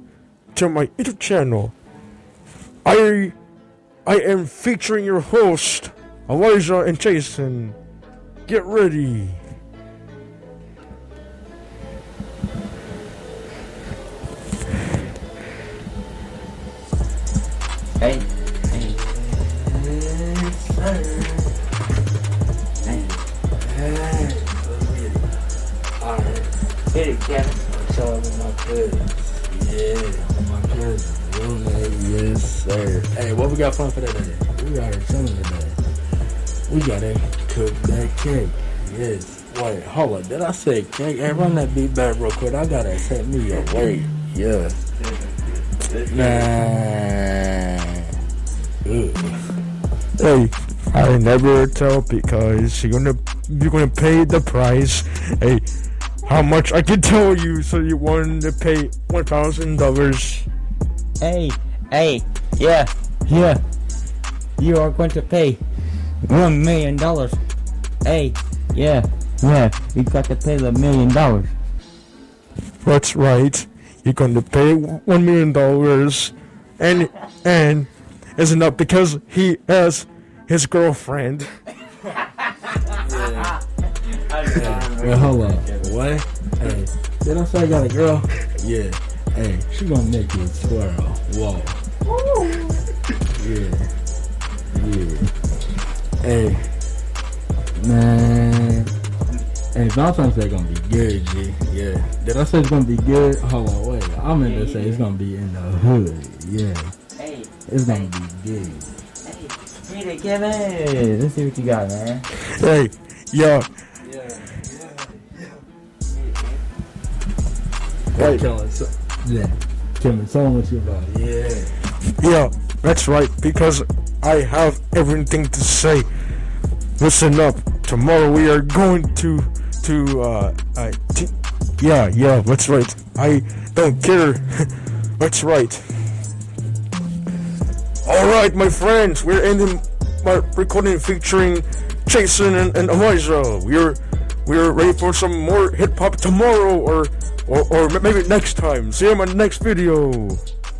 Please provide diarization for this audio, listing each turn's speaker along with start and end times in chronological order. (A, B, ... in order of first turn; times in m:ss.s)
0:00.5-0:01.7 A
0:02.8-0:03.4 A
0:04.0-0:07.8 A
0:08.5-0:09.4 A
0:18.0-0:19.0 B
0:18.7-0:21.6 C
0:22.8-0:25.3 C
0:26.0-0:26.5 C
0:26.9-0:27.6 B
0:27.7-0:35.8 C
0:36.7-0:44.8 C
0:46.1-0:48.2 C
0:48.8-0:49.6 C
0:50.2-0:55.6 A
0:56.2-1:00.5 A
1:01.2-1:03.6 B
1:04.6-1:05.6 B
1:06.2-1:07.4 B
1:08.0-1:11.5 B
1:12.8-1:21.5 A
1:22.4-1:25.9 B
1:23.0-1:23.6 C
1:24.4-1:31.8 C
1:32.2-1:32.8 B
1:33.4-1:33.9 C
1:34.7-1:35.3 C
1:36.2-1:36.7 C
1:37.8-1:38.9 C
1:39.7-1:46.9 C
1:44.4-1:45.1 B
1:47.2-1:48.1 B
1:47.7-1:49.0 C
1:49.2-1:52.3 B
1:52.5-1:53.7 A
1:54.0-1:55.6 C
1:56.1-1:56.6 B
1:58.2-2:01.8 C
1:58.2-1:58.4 A
2:02.2-2:06.1 A
2:07.0-2:16.0 A
2:18.0-2:30.4 A